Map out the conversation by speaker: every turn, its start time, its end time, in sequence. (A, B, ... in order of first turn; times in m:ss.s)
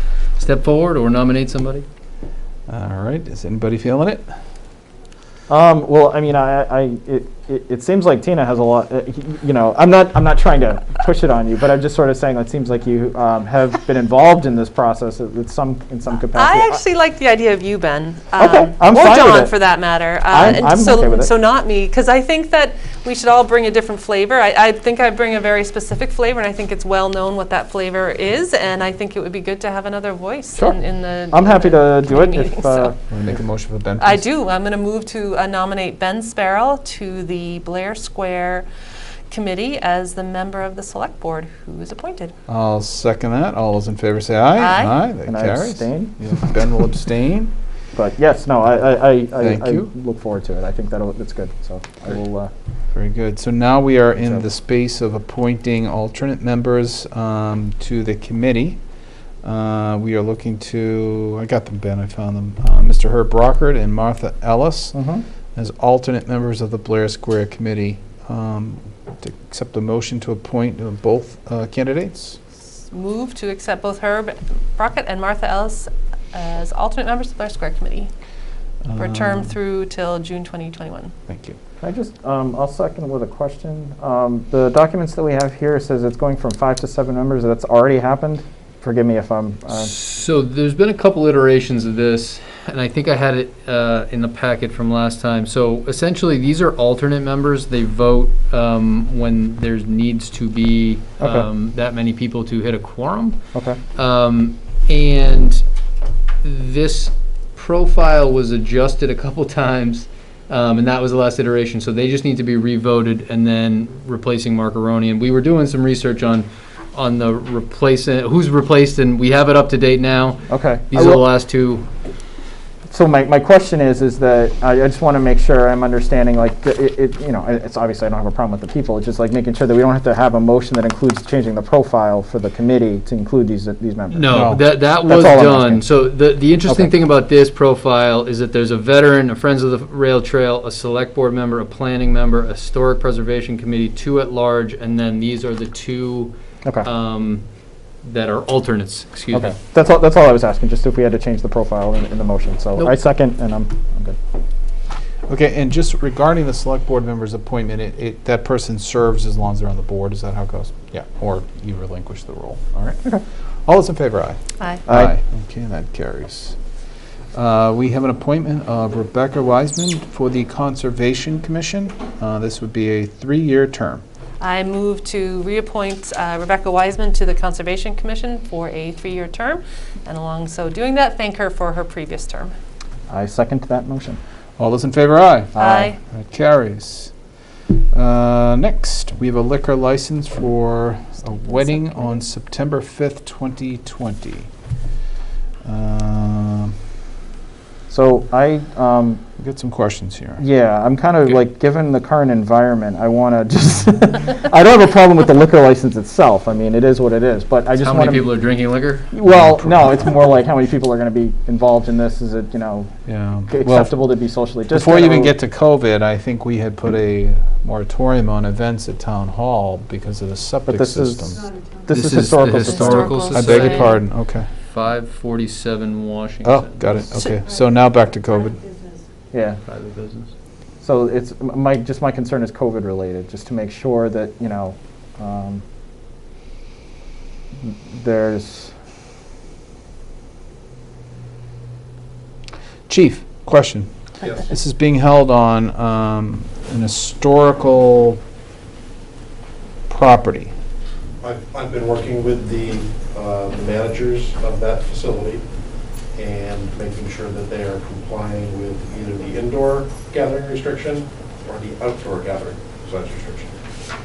0:00.4-0:01.9 A
0:02.7-0:04.3 B
0:05.5-0:16.8 C
0:16.3-0:32.9 D
0:18.4-0:19.5 C
0:20.3-0:21.3 C
0:31.3-0:33.0 C
0:33.1-0:34.3 B
0:34.0-0:38.7 D
0:39.3-0:42.3 D
0:42.5-0:47.5 B
0:44.6-0:45.0 D
0:45.3-0:46.5 C
0:48.0-0:52.5 C
0:49.4-0:49.9 B
0:52.9-0:58.8 B
0:59.4-1:05.0 B
1:04.9-1:05.2 C
1:05.6-1:12.4 B
1:12.9-1:18.1 D
1:18.8-1:19.6 B
1:19.0-1:21.1 D
1:21.3-1:21.6 B
1:21.8-1:29.9 C
1:29.7-1:43.4 A
1:41.2-1:41.5 C
1:43.5-1:43.8 C
1:44.0-1:45.6 A
1:46.4-2:01.9 A
2:00.5-2:01.3 C
2:02.9-2:14.4 C
2:14.1-2:27.4 A
2:14.3-2:14.7 B
2:14.9-2:15.9 C
2:28.0-2:29.6 A
2:29.3-2:34.2 C
2:35.3-2:43.0 B
2:43.7-2:46.6 B
2:44.9-2:45.2 C
2:47.3-2:54.0 B
2:54.4-3:02.5 D
3:03.1-3:04.2 C
3:04.6-3:05.5 B
3:05.6-3:05.9 C
3:05.6-3:06.0 D
3:06.1-3:07.1 B
3:07.9-3:14.5 B
3:11.6-3:12.1 D
3:15.6-3:16.8 B
3:17.9-3:19.2 C
3:19.4-3:20.4 B
3:20.4-3:28.3 C
3:27.8-3:29.1 A
3:29.1-3:32.9 C
3:29.3-3:30.3 B
3:33.1-3:34.1 B
3:33.5-3:35.4 C
3:34.7-3:41.4 B
3:40.7-3:43.2 C
3:41.9-3:44.0 A
3:42.6-3:44.0 D
3:43.3-3:44.5 B
3:44.7-3:46.8 A
3:46.4-3:48.6 B
3:49.3-3:49.6 C
3:49.7-3:50.3 A
3:50.8-3:55.6 C
3:57.6-3:58.7 C
4:02.9-4:03.9 B
4:04.4-4:08.2 B
4:09.9-4:10.5 B
4:11.2-4:15.4 E
4:16.1-4:23.5 E